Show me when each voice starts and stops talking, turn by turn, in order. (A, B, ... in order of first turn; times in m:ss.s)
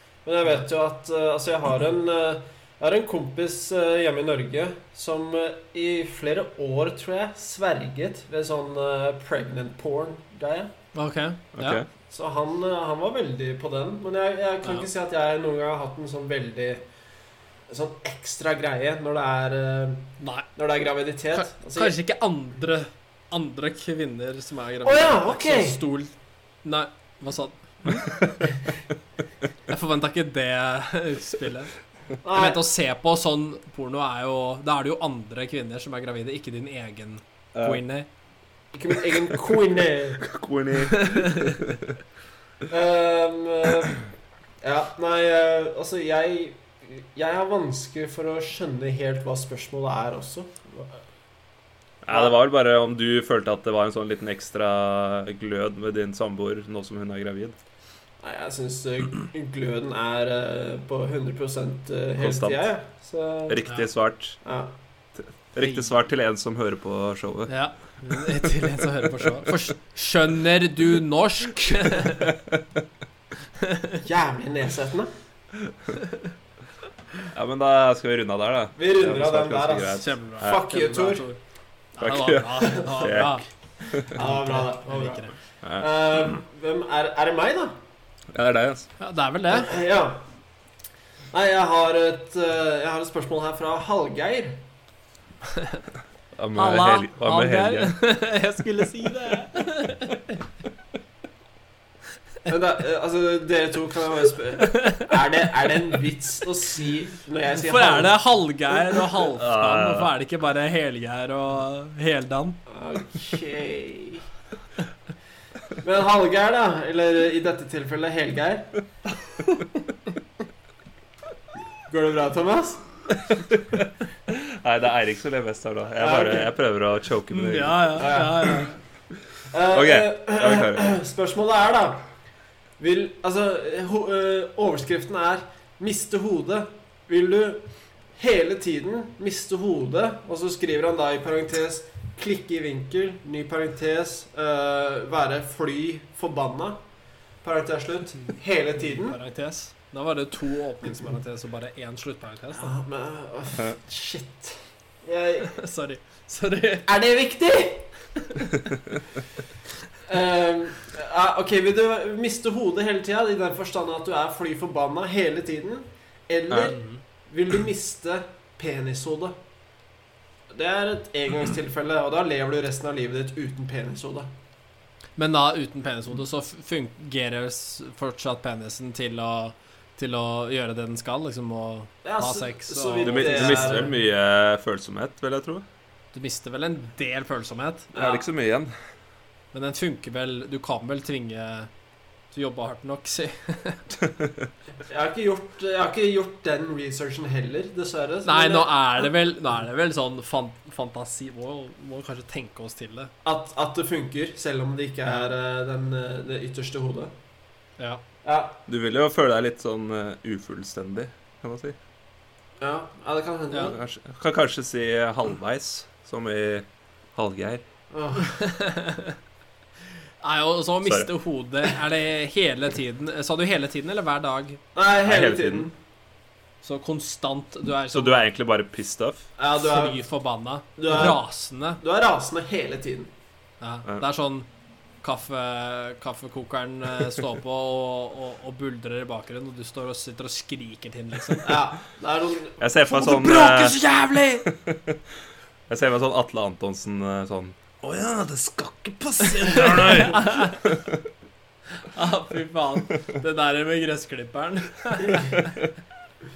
0:00.2-0:10.7 A
0:10.9-0:11.8 B
0:11.6-0:11.9 C
0:12.1-0:16.8 A
0:17.7-0:22.0 A
0:20.2-0:20.5 B
0:21.3-0:28.4 B
0:24.8-0:25.8 A
0:29.7-0:31.7 B
0:32.2-0:32.6 A
0:32.3-0:38.1 B
0:37.5-0:37.8 C
0:38.7-0:40.3 A
0:40.2-0:42.0 C
0:40.8-0:41.6 B
0:42.7-0:44.1 A
0:44.6-0:51.0 A
0:52.0-0:57.6 C
0:58.2-1:03.6 A
1:02.2-1:02.7 C
1:03.5-1:04.4 C
1:04.4-1:04.7 A
1:05.2-1:07.5 C
1:05.6-1:05.9 B
1:07.5-1:12.4 B
1:12.1-1:12.8 C
1:13.6-1:14.0 B
1:14.0-1:15.1 A
1:17.3-1:20.6 C
1:18.8-1:21.3 A
1:20.0-1:21.4 B
1:22.0-1:25.3 B
1:22.0-1:24.1 C
1:22.7-1:22.9 A
1:24.1-1:27.8 A
1:28.3-1:28.9 C
1:29.0-1:29.7 B
1:29.5-1:30.2 A
1:31.3-1:34.6 A
1:35.5-1:35.8 B
1:36.4-1:38.0 C
1:36.6-1:40.4 B
1:42.5-1:48.2 A
1:44.6-1:45.1 B
1:47.6-1:52.6 B
1:49.4-1:50.1 C
1:52.7-1:54.3 A
1:55.8-1:58.8 A
2:01.9-2:02.9 A
2:03.5-2:08.1 C
2:06.0-2:06.5 A
2:07.3-2:08.7 B
2:08.0-2:08.7 A
2:09.5-2:12.0 A
2:09.7-2:10.9 C
2:12.8-2:17.7 A
2:18.2-2:26.8 A
2:27.4-2:29.2 A
2:28.8-2:32.7 B
2:32.6-2:35.5 A
2:35.4-2:36.9 B
2:36.9-2:37.9 A
2:38.2-2:38.6 B
2:40.1-2:49.4 A
2:46.5-2:46.8 C
2:46.7-2:47.0 B
2:50.5-2:54.3 A
2:55.2-3:03.9 B
3:02.0-3:03.9 A
3:03.0-3:05.6 C
3:06.1-3:07.9 B
3:07.9-3:08.2 A
3:08.0-3:08.7 C
3:09.5-3:11.7 B
3:12.3-3:13.9 B
3:14.1-3:14.5 C
3:14.9-3:19.1 A
3:18.2-3:23.1 B
3:23.2-3:27.1 A
3:28.2-3:28.6 A
3:28.7-3:31.8 C
3:32.6-3:33.8 A
3:33.7-3:37.6 C
3:37.9-3:38.4 A
3:38.2-3:39.2 B
3:40.2-3:44.6 B
3:40.8-3:41.1 C
3:44.8-3:45.7 A
3:45.0-3:45.7 C
3:46.6-3:48.2 B
3:47.9-3:49.3 C
3:49.4-3:50.0 A
3:49.6-3:51.8 B
3:50.8-3:51.2 A
3:51.8-3:53.1 A
3:53.6-3:54.5 B
3:55.0-4:01.6 B
4:01.4-4:02.6 A
4:02.6-4:05.0 C
4:02.9-4:04.4 B
4:05.7-4:11.0 C
4:09.4-4:10.7 B
4:11.7-4:15.6 B